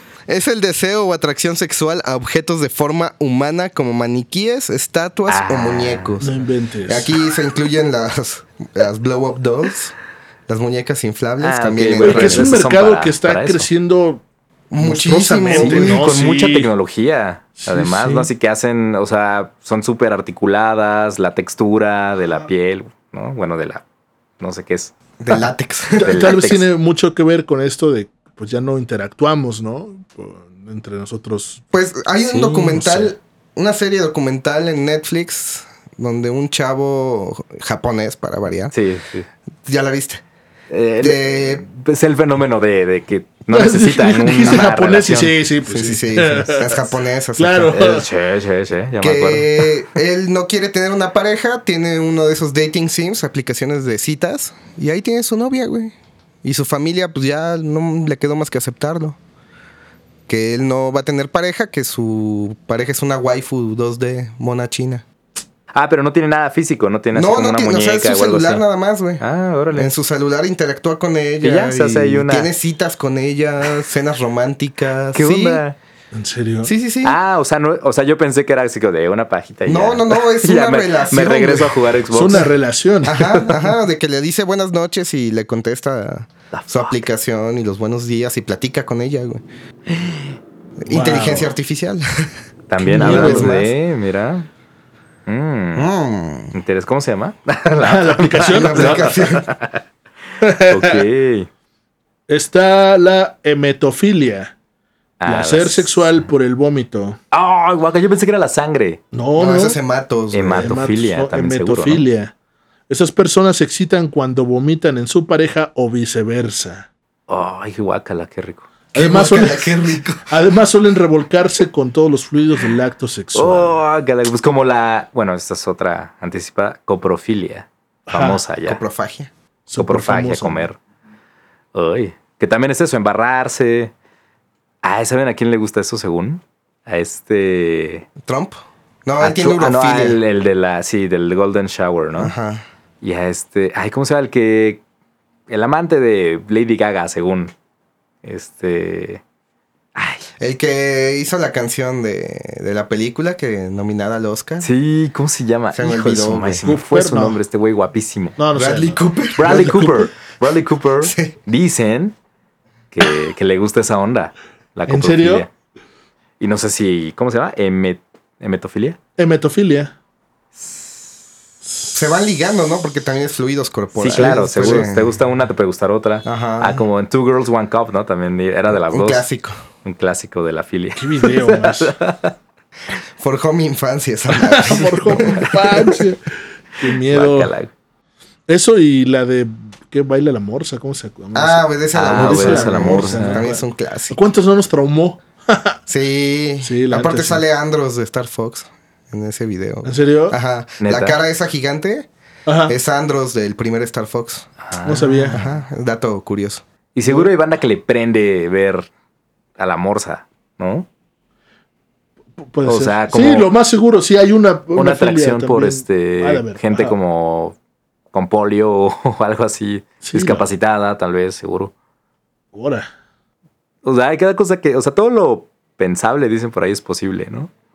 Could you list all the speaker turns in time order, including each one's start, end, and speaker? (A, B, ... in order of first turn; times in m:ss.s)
0:00.3-0:06.3 A
0:05.3-0:06.2 B
0:06.2-0:07.1 C
0:06.8-0:09.9 A
0:10.5-0:12.6 A
0:11.4-0:13.7 B
0:12.0-0:14.2 C
0:14.7-0:16.1 A
0:14.8-0:16.7 C
0:15.6-0:23.8 B
0:17.6-0:18.3 C
0:24.4-0:24.9 B
0:25.2-0:26.4 A
0:26.0-0:26.6 B
0:26.0-0:31.6 C
0:31.7-0:38.7 A
0:32.3-0:32.9 B
0:38.7-0:39.3 B
0:39.6-0:40.2 A
0:40.7-0:45.3 B
0:41.0-0:41.6 A
0:43.5-0:46.8 C
0:45.7-0:47.8 A
0:47.4-0:48.0 C
0:47.7-0:49.7 B
0:49.0-0:59.2 A
1:00.3-1:05.0 A
1:05.7-1:08.6 B
1:07.1-1:09.2 A
1:09.2-1:09.9 B
1:09.7-1:15.6 A
1:11.4-1:12.5 B
1:15.1-1:15.8 B
1:16.1-1:16.7 C
1:16.6-1:17.2 A
1:17.0-1:22.5 B
1:19.6-1:21.8 A
1:22.1-1:23.2 C
1:23.0-1:29.4 A
1:23.2-1:23.6 B
1:26.5-1:26.9 B
1:29.9-1:30.4 B
1:30.8-1:32.4 A
1:30.9-1:31.5 C
1:32.7-1:34.5 B
1:32.8-1:33.5 C
1:32.9-1:33.7 A
1:35.3-1:35.9 B
1:35.8-1:36.5 A
1:36.5-1:39.8 B
1:37.8-1:39.0 C
1:38.4-1:39.5 A
1:40.4-1:41.0 C
1:40.7-1:41.5 B
1:42.3-1:44.5 C
1:45.2-1:46.2 B
1:45.3-1:47.2 C
1:47.3-1:49.0 B
1:49.1-1:49.8 C
1:49.4-1:50.8 A
1:50.3-1:52.0 B
1:50.6-1:52.3 C
1:52.9-1:56.9 C
1:57.3-1:58.7 B
1:58.9-2:00.2 A
1:58.9-2:03.8 C
2:03.3-2:08.8 B
2:08.1-2:08.4 C
2:08.6-2:09.3 A
2:09.7-2:10.6 C
2:09.8-2:10.8 B
2:11.7-2:13.9 B
2:14.8-2:18.1 B
2:18.2-2:20.2 A
2:19.2-2:22.3 B
2:22.2-2:22.6 A
2:23.0-2:24.8 B
2:25.5-2:27.5 B
2:28.2-2:29.2 B
2:29.9-2:30.2 B
2:30.4-2:34.7 A
2:34.6-2:38.4 B
2:35.7-2:36.6 A
2:36.6-2:37.4 C
2:38.4-2:40.1 C
2:38.5-2:39.7 A
2:39.3-2:42.1 B
2:41.0-2:41.3 A
2:42.9-2:45.5 B
2:44.9-2:45.5 C
2:46.4-2:49.0 B
2:49.2-2:49.9 C
2:51.9-2:55.1 A
2:54.0-2:59.2 B
2:54.2-2:54.7 C
2:56.2-2:56.8 A
2:58.9-2:59.6 A
2:59.8-3:02.3 B
3:01.0-3:01.9 C
3:03.2-3:05.5 A
3:04.3-3:07.5 C
3:06.9-3:07.7 B
3:08.5-3:15.8 C
3:11.3-3:14.2 A
3:11.9-3:13.4 B
3:15.9-3:22.1 A
3:16.6-3:17.4 C
3:19.8-3:20.4 C
3:20.8-3:21.2 B
3:22.4-3:22.7 C
3:22.7-3:24.5 A
3:24.6-3:25.4 B
3:24.8-3:25.4 C
3:25.3-3:26.6 A
3:26.9-3:28.9 B
3:29.6-3:30.9 B
3:32.4-3:36.9 C
3:32.6-3:33.5 B
3:34.7-3:37.5 B
3:38.1-3:41.7 B
3:40.0-3:40.4 C
3:42.5-3:42.9 C
3:43.8-3:47.5 B